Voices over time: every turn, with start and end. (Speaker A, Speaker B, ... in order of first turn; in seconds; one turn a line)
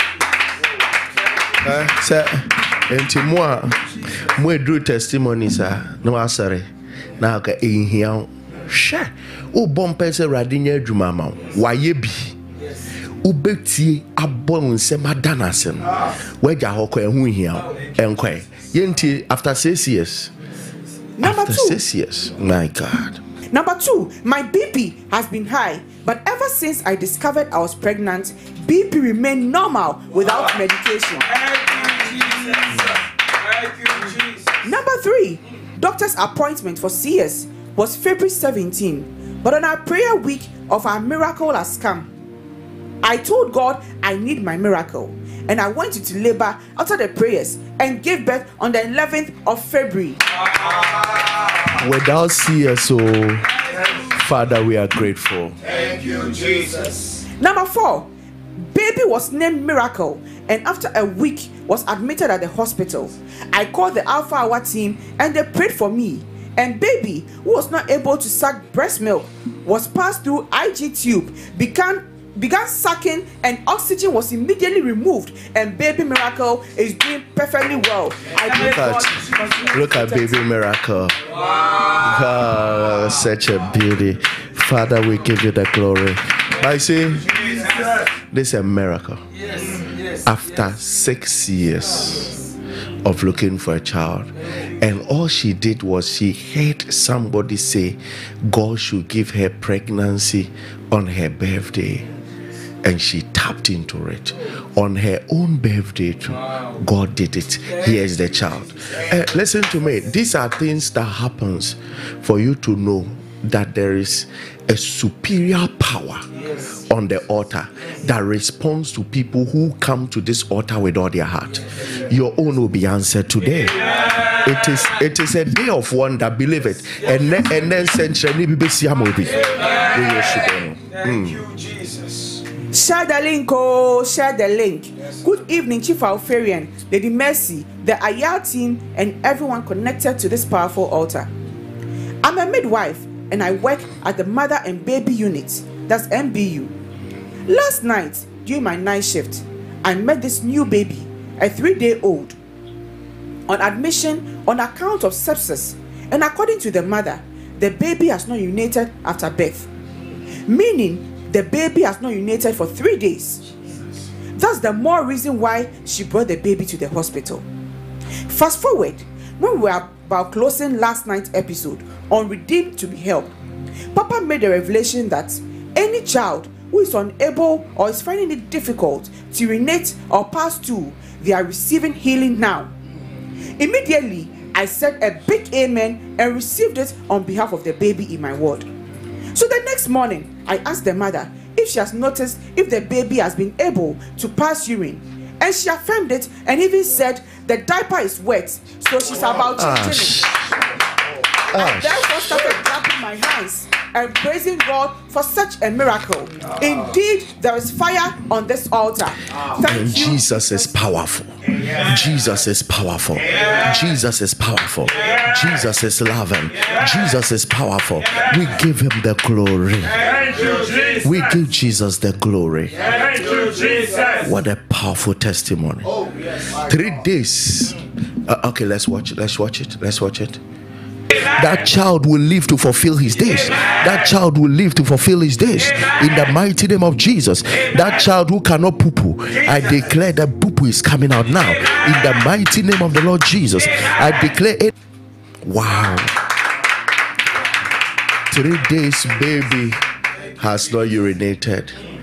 Speaker A: 1.6-12.3
Speaker A: 13.2-20.3
Speaker B: 21.2-21.8
Speaker A: 21.2-23.2
Speaker B: 23.5-31.3
Speaker C: 31.4-32.8
Speaker C: 33.5-34.4
Speaker B: 34.6-42.1
Speaker B: 43.0-50.2
Speaker A: 51.7-55.6
Speaker C: 55.7-57.0
Speaker B: 57.4-80.4
Speaker A: 78.4-81.2
Speaker A: 81.9-87.6
Speaker A: 88.2-89.2
Speaker A: 90.2-92.4
Speaker A: 93.0-102.1
Speaker A: 102.8-123.8
Speaker A: 124.4-131.5
Speaker C: 131.6-132.1
Speaker B: 132.7-141.3
Speaker B: 142.2-146.7
Speaker B: 147.5-152.3
Speaker B: 153.5-159.7
Speaker B: 160.5-163.4
Speaker B: 164.3-167.4
Speaker B: 168.3-173.3
Speaker B: 173.9-182.7
Speaker B: 183.6-188.7
Speaker B: 189.3-200.3
Speaker A: 199.6-200.5
Speaker B: 201.5-210.2
Speaker A: 201.5-202.3
Speaker A: 209.6-220.0
Speaker C: 220.2-220.9
Speaker A: 221.0-222.8
Speaker C: 222.9-224.2
Speaker A: 224.2-230.4
Speaker A: 231.1-244.7
Speaker A: 245.4-246.2
Speaker A: 248.3-249.8
Speaker A: 250.3-251.8